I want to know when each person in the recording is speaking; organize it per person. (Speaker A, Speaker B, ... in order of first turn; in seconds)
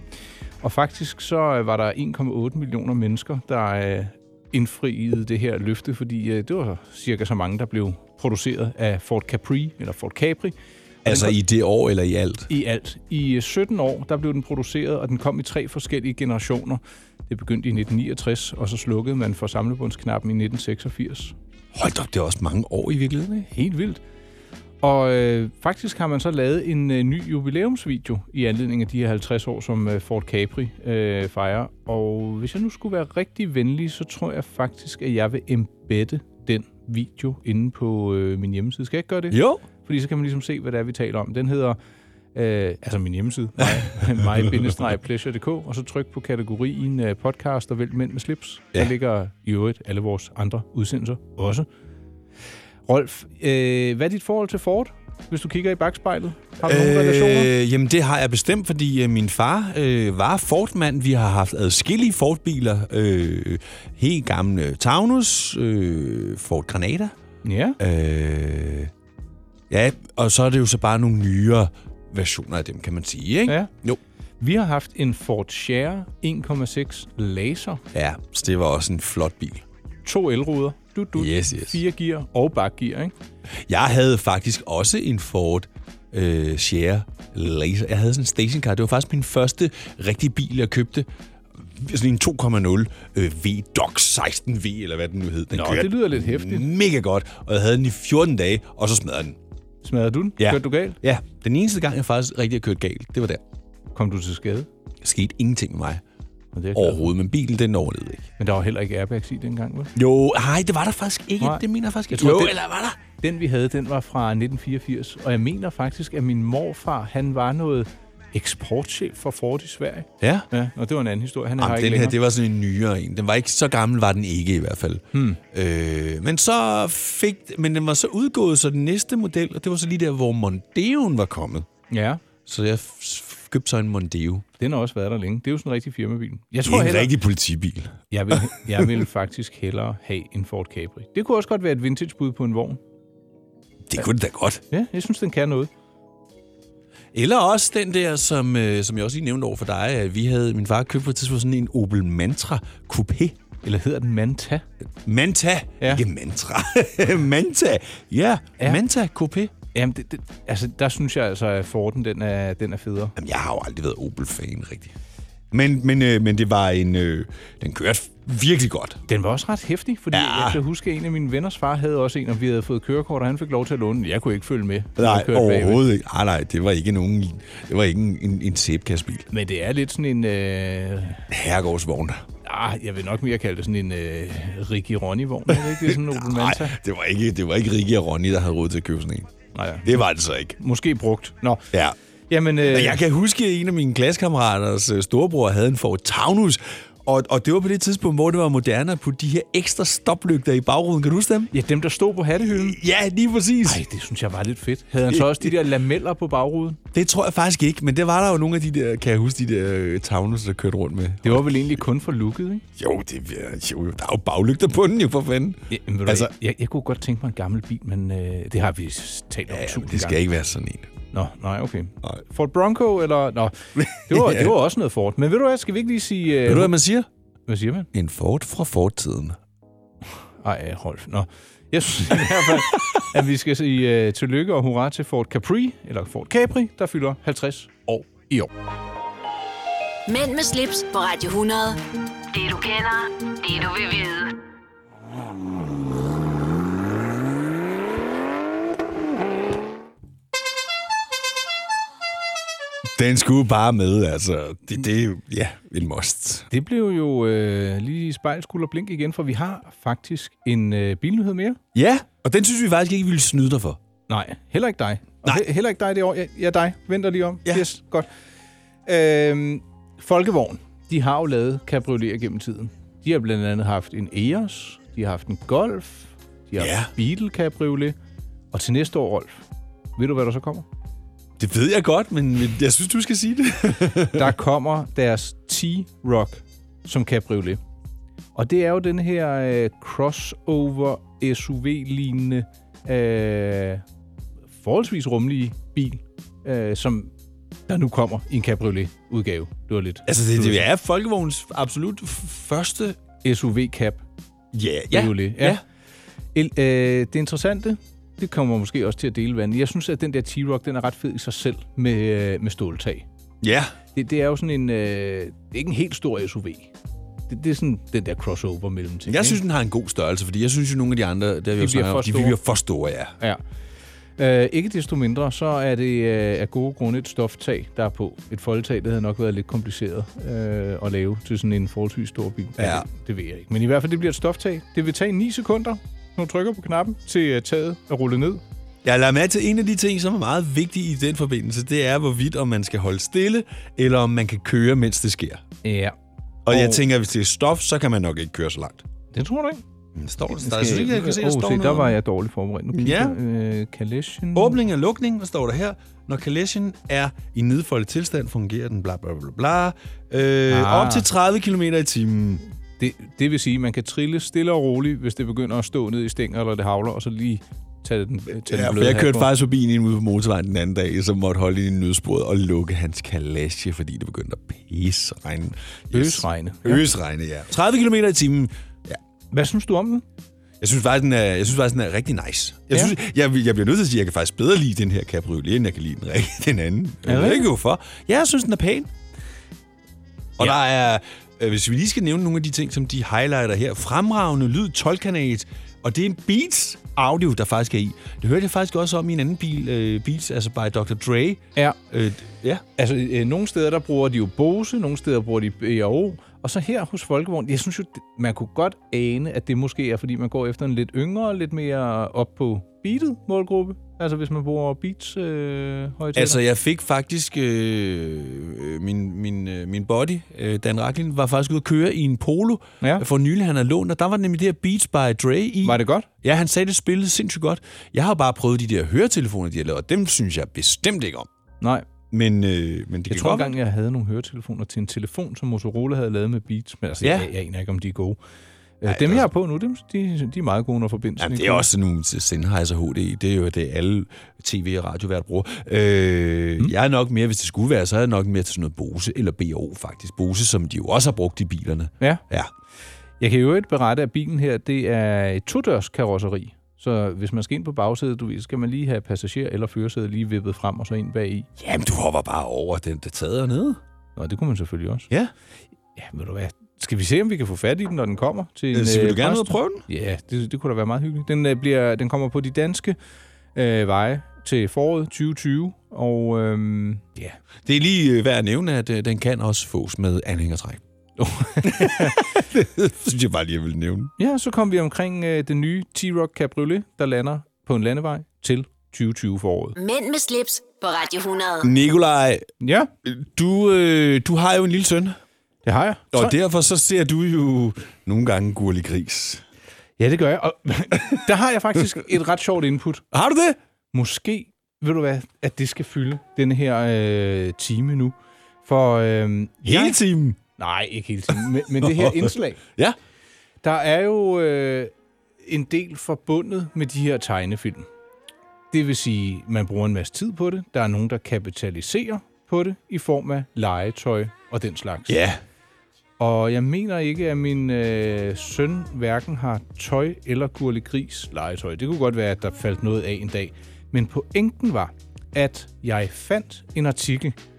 Speaker A: 0.6-11.4, 12.5-21.3, 23.5-24.0, 24.8-41.8, 42.3-51.7, 52.9-57.5, 67.4-67.8, 74.4-77.8, 80.0-83.1, 95.5-96.7, 99.8-101.0, 103.9-104.7, 106.5-107.1, 108.4-109.9, 111.4-112.6, 113.2-122.2, 125.1-125.4, 131.9-132.2, 134.6-137.1, 138.1-142.8, 144.7-145.7, 153.6-154.6, 159.7-163.1, 169.1-175.8, 179.3-181.2, 182.4-186.8, 189.5-190.0, 190.6-191.6, 192.3-193.0, 201.5-202.8, 203.6-206.8, 211.2-212.6, 215.7-220.2, 221.1-226.8, 227.5-227.9, 230.4-238.5, 256.5-261.6, 264.1-268.1, 268.9-277.9, 278.5-279.4, 280.0-280.7, 284.1-287.6, 288.3-293.8, 294.5-297.1, 297.7-300.6, 303.2-304.0, 304.9-305.6, 306.3-313.0, 313.9-316.7, 317.3-319.4, 321.6-322.4, 324.2-338.4, 345.6-345.9, 346.5-346.8, 349.1-349.6, 350.3-354.6, 360.5-361.1, 362.8-369.3, 375.9-376.8, 379.3-380.0, 387.0-387.5, 402.8-416.4, 425.6-426.1, 431.6-431.9, 433.1-438.2, 438.8-441.7, 453.2-461.5, 464.1-465.1, 465.9-473.0, 473.5-477.4, 481.2-482.2, 484.2-489.7, 492.6-492.9, 495.6-496.4, 500.0-503.0, 503.9-510.0, 510.6-512.6, 513.6-514.9, 515.4-517.9, 518.7-525.2, 526.2-537.4
Speaker B: 11.0-12.5, 21.7-23.5, 39.3-39.6, 44.1-44.5, 56.6-67.1, 67.8-68.9, 69.7-74.0, 77.9-79.6, 81.2-81.8, 83.7-99.4, 100.4-103.4, 105.0-106.0, 106.7-108.3, 109.9-113.0, 120.2-120.5, 121.6-131.7, 132.4-134.4, 136.6-138.9, 143.9-144.6, 147.1-153.4, 155.0-159.5, 163.2-164.9, 165.5-169.0, 170.1-170.6, 175.0-179.3, 181.3-182.2, 185.5-189.3, 189.8-190.6, 192.6-201.5, 202.4-203.8, 205.1-205.5, 206.9-211.8, 212.8-216.3, 219.5-220.9, 223.8-224.6, 226.4-227.1, 227.9-229.4, 232.3-232.6, 252.9-256.5, 261.7-263.8, 276.6-276.9, 281.4-284.3, 300.1-303.0, 304.5-305.6, 313.4-313.8, 319.1-323.1, 332.6-332.9, 338.8-345.4, 346.4-348.8, 349.9-351.9, 352.7-353.2, 354.3-362.4, 368.4-379.0, 380.6-388.9, 390.4-402.6, 416.1-431.3, 432.1-433.5, 437.0-437.3, 438.9-439.3, 441.2-452.5, 461.6-463.8, 468.7-469.8, 477.6-480.8, 481.6-484.1, 491.6-492.5, 493.0-495.2, 496.1-499.4, 503.1-503.6, 509.6-510.4, 511.8-513.0, 525.1-525.4
Speaker C: 240.1-241.8, 242.3-244.3, 489.8-491.7